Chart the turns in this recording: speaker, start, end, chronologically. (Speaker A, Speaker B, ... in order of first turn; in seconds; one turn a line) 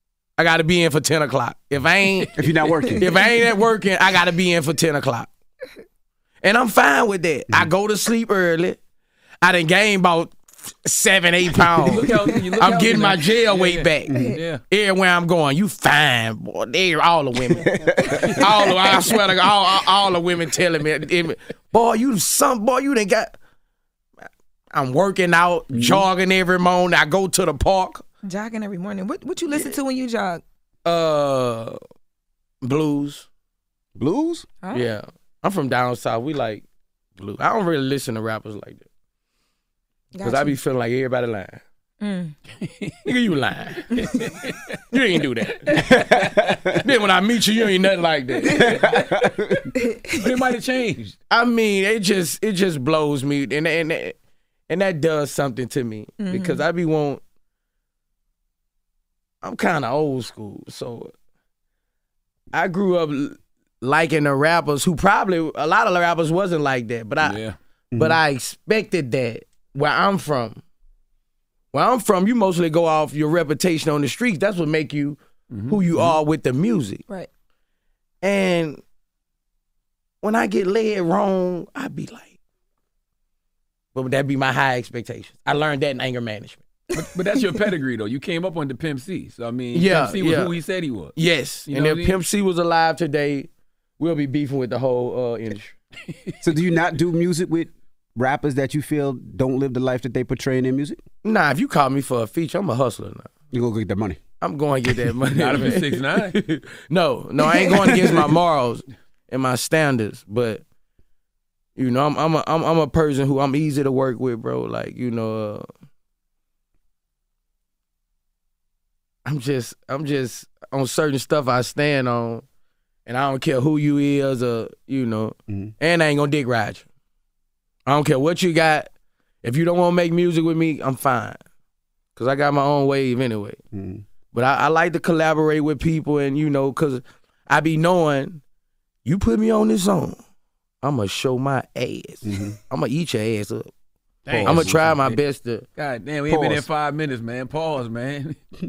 Speaker A: 0.4-2.4
Speaker B: 2.4-3.0
Speaker A: 3.0-5.3
Speaker A: 6.4-8.8
Speaker A: 9.4-23.4
Speaker C: 11.8-14.6
Speaker B: 14.1-14.3
Speaker B: 17.6-18.4
Speaker C: 18.1-18.5
Speaker A: 24.7-28.0
Speaker B: 25.7-26.0
Speaker D: 28.2-30.4
Speaker A: 29.5-29.8
Speaker A: 30.8-31.8
Speaker A: 32.6-33.3
Speaker B: 34.0-34.5
Speaker D: 34.6-34.9
Speaker A: 34.7-36.6
Speaker A: 37.2-38.9
Speaker D: 40.1-40.6
Speaker A: 40.2-41.6
Speaker D: 42.0-42.3
Speaker C: 42.6-43.0
Speaker A: 43.0-43.9
Speaker C: 43.9-44.8
Speaker D: 44.0-44.2
Speaker A: 44.9-46.2
Speaker B: 45.8-46.8
Speaker A: 46.8-48.8
Speaker D: 48.5-48.8
Speaker B: 48.6-49.7
Speaker C: 48.9-49.2
Speaker D: 49.8-50.3
Speaker C: 50.2-51.0
Speaker A: 51.3-54.2
Speaker A: 54.7-57.2
Speaker D: 56.2-56.6
Speaker A: 59.4-61.1
Speaker A: 62.5-67.4
Speaker C: 67.2-67.5
Speaker B: 67.9-68.2
Speaker A: 68.0-70.6
Speaker A: 71.7-77.0
Speaker C: 75.5-76.2
Speaker A: 78.2-78.8
Speaker A: 80.2-82.3
Speaker A: 83.9-86.6
Speaker C: 86.9-91.2
Speaker A: 89.7-90.5
Speaker A: 91.2-95.7
Speaker C: 91.7-92.2
Speaker B: 96.4-101.0
Speaker A: 101.2-103.3
Speaker B: 103.5-104.2
Speaker A: 104.4-110.6
Speaker C: 105.3-106.4
Speaker B: 107.7-108.1
Speaker A: 111.8-115.7
Speaker A: 119.2-122.4
Speaker A: 123.0-126.8
Speaker B: 125.5-125.7
Speaker A: 127.8-128.9
Speaker A: 129.4-131.4
Speaker A: 132.2-133.6
Speaker B: 133.7-134.0
Speaker A: 134.3-138.4
Speaker A: 139.0-140.2
Speaker A: 140.8-143.7
Speaker B: 142.2-142.6
Speaker C: 144.3-144.7
Speaker B: 144.3-145.0
Speaker A: 144.4-145.6
Speaker C: 145.8-148.4
Speaker B: 146.3-146.7